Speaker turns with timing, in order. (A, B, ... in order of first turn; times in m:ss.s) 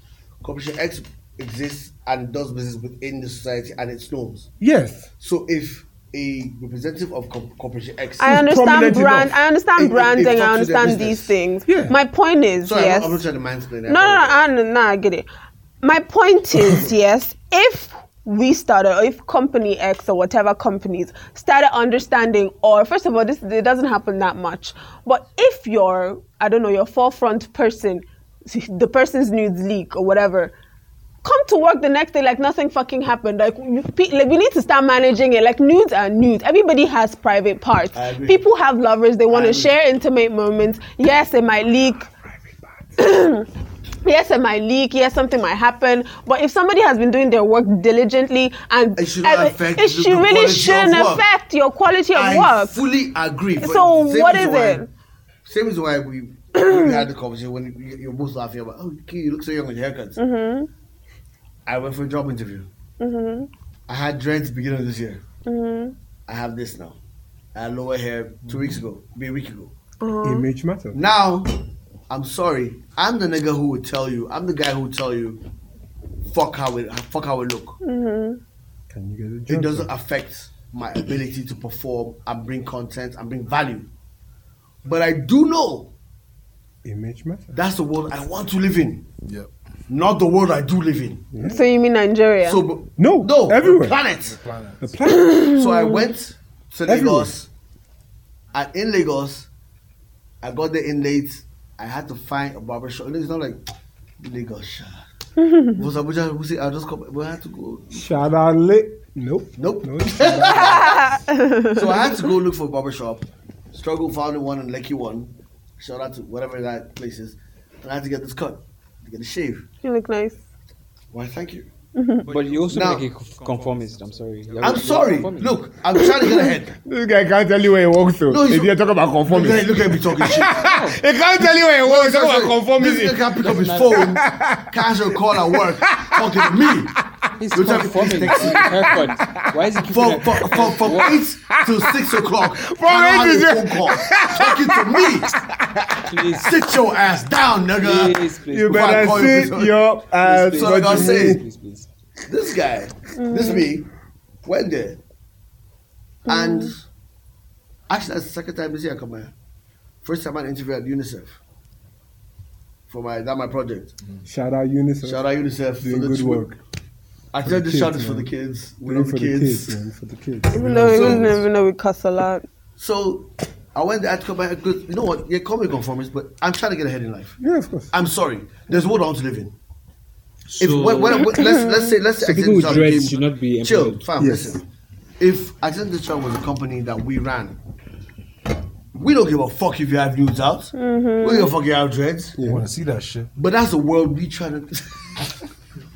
0:00.4-0:04.5 A
0:04.6-0:05.1 B
0:05.2-0:08.4 A
0:08.2-0:13.2 C
0:08.2-0:09.3 B
0:09.8-0:11.4 A
0:11.7-0:11.9 B
0:12.6-0:14.4 A
0:13.9-0:15.3 C
0:15.8-0:30.5 C
0:31.2-0:42.1 C
0:37.9-0:38.4 A
0:39.3-0:39.8 A
0:43.0-0:43.5 C
0:44.0-0:52.8 C
0:49.0-0:51.3 A
0:52.1-0:54.8 A
0:53.6-0:54.9 C
0:55.4-1:00.2 A
0:56.6-0:57.0 C
1:00.2-1:00.7 C
1:01.6-1:02.7 A
1:03.0-1:03.5 C
1:03.9-1:05.2 A
1:05.4-1:05.9 C
1:06.3-1:07.0 A
1:07.5-1:09.7 A
1:10.0-1:10.4 C
1:10.2-1:11.0 B
1:10.9-1:15.4 A
1:16.2-1:17.8 A
1:17.8-1:18.4 C
1:18.9-1:19.9 B
1:19.5-1:23.9 A
1:24.8-1:25.9 A
1:26.8-1:27.6 B
1:27.5-1:29.0 A
1:29.2-1:29.5 D
1:29.9-1:31.3 A
1:31.3-1:31.6 B
1:31.4-1:32.6 C
1:32.4-1:34.4 A
1:33.0-1:34.0 B
1:34.2-1:34.9 D
1:34.8-1:35.5 B
1:35.2-1:36.0 C
1:35.5-1:37.5 A
1:36.8-1:37.3 B
1:38.5-1:39.5 A
1:40.4-1:43.6 A
1:44.2-1:45.0 A
1:45.4-1:45.7 C
1:45.7-1:48.1 A
1:47.9-1:50.8 B
1:49.6-1:51.1 A
1:50.4-1:52.3 C
1:51.7-1:59.7 A
1:59.8-2:00.4 C
2:01.1-2:01.7 A
2:02.0-2:02.2 C
2:02.3-2:05.6 E
2:02.7-2:03.1 A
2:04.6-2:06.8 A
2:06.8-2:17.1 B
2:08.3-2:10.6 A
2:10.4-2:11.0 E
2:11.4-2:17.0 A
2:13.4-2:14.1 E
2:17.4-2:21.2 E
2:17.5-2:18.9 A
2:18.3-2:19.5 B
2:19.8-2:25.3 A
2:21.5-2:26.4 B
2:26.1-2:26.5 E
2:26.4-2:29.8 A
2:27.8-2:29.0 E
2:28.5-2:31.4 B
2:30.2-2:31.9 E
2:30.5-2:31.4 A
2:32.3-2:33.9 A
2:33.2-2:33.7 C
2:34.4-2:35.0 A
2:36.2-2:36.8 A
2:36.3-2:36.7 C
2:37.9-2:39.3 A
2:40.0-2:41.4 A
2:42.9-2:43.9 A
2:44.2-2:45.3 B
2:45.0-2:46.5 A
2:45.8-2:46.6 B
2:47.3-2:49.8 A
2:47.4-2:48.3 B
2:48.8-2:51.4 B
2:50.5-2:52.4 C
2:50.8-2:51.4 A
2:52.8-2:57.4 A
2:57.4-2:57.9 B
2:57.9-2:59.5 A
3:00.5-3:01.3 E
3:00.6-3:04.6 A
3:01.1-3:02.0 C
3:02.2-3:04.0 E
3:04.2-3:04.6 B
3:05.2-3:07.6 A
3:08.9-3:12.4 A
3:10.7-3:11.5 C
3:12.4-3:12.6 B
3:12.4-3:13.3 D
3:13.4-3:15.3 A